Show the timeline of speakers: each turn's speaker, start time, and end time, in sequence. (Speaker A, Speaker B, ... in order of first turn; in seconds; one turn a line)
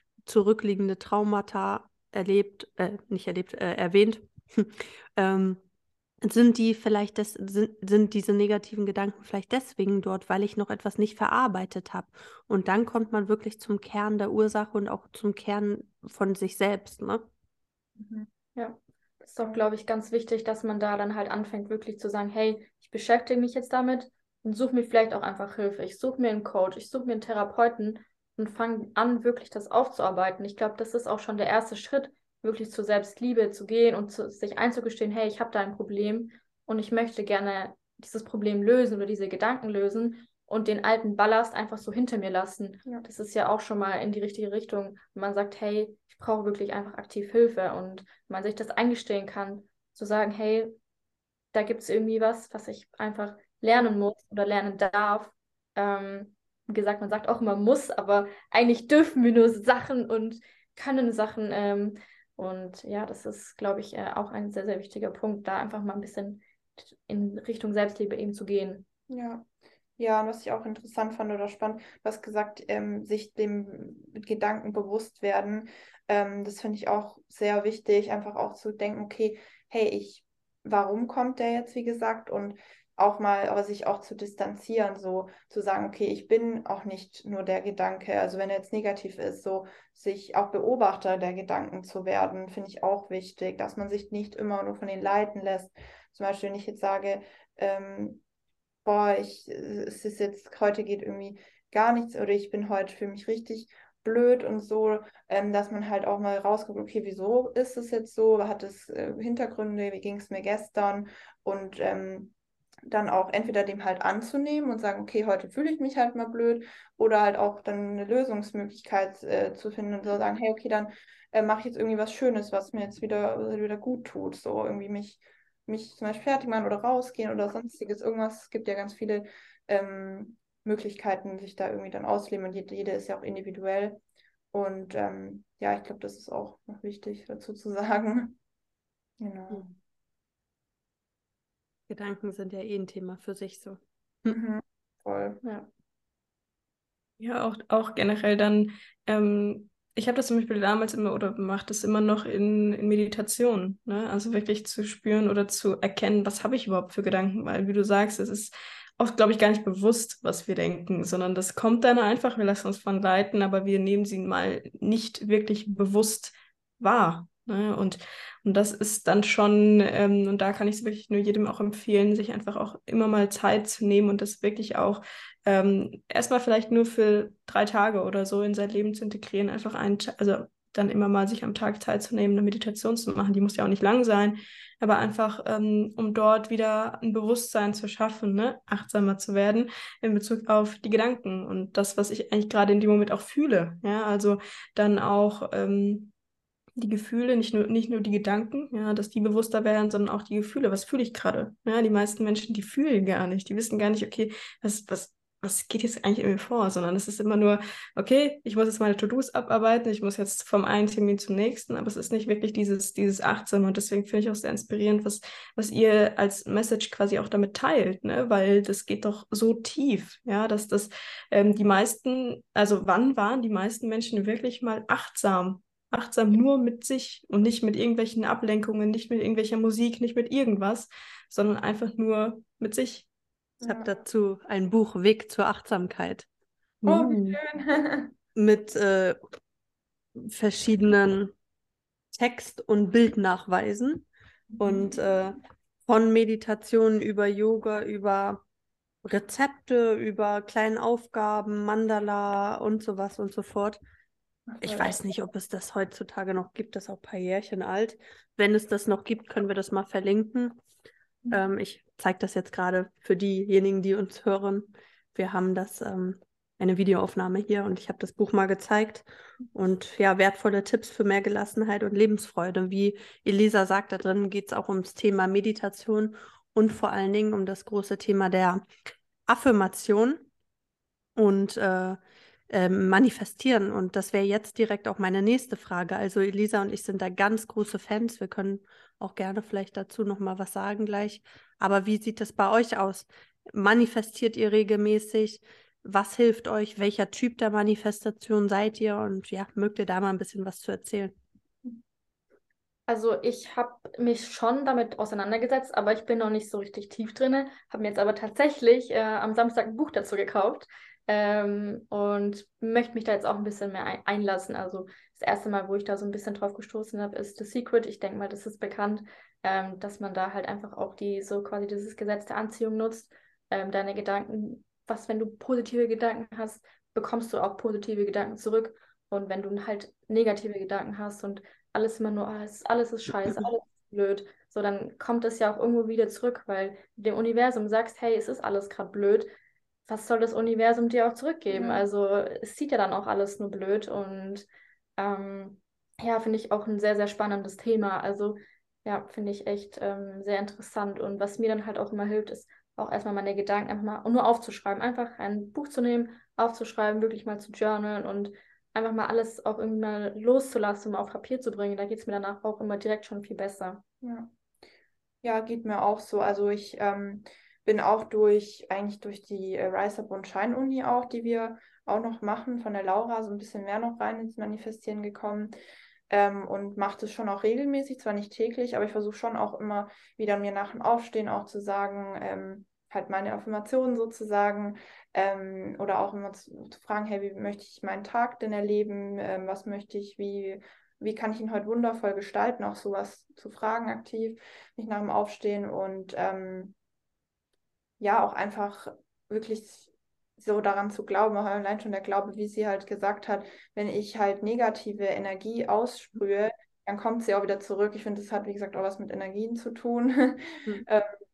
Speaker A: 0.2-5.6
Speaker A: 6.2-17.3
Speaker B: 18.0-18.3
Speaker C: 18.5-50.8
Speaker C: 51.5-68.8
Speaker B: 69.1-69.5
Speaker B: 70.0-98.2
Speaker B: 98.8-112.3
Speaker B: 112.9-134.0
Speaker B: 134.5-138.4
Speaker B: 139.2-139.7
Speaker A: 141.9-144.4
Speaker B: 144.3-145.4
Speaker C: 145.4-145.7
Speaker D: 147.2-196.1
Speaker D: 196.8-233.1
Speaker B: 233.6-234.0
Speaker A: 233.6-236.3
Speaker A: 236.8-237.4
Speaker B: 236.8-238.1
Speaker A: 238.3-239.2
Speaker A: 240.2-241.3
Speaker A: 242.1-244.1
Speaker B: 244.5-244.9
Speaker A: 244.6-248.4
Speaker A: 249.0-253.8
Speaker B: 254.5-254.9
Speaker A: 254.6-260.6
Speaker A: 261.3-278.6
Speaker A: 279.3-280.2
Speaker A: 281.1-282.0
Speaker A: 282.5-301.1
Speaker C: 302.9-339.3
Speaker C: 339.9-363.8
Speaker B: 341.5-341.9
Speaker B: 364.0-364.3
Speaker B: 365.2-375.5
Speaker B: 376.1-396.7
Speaker B: 398.0-411.1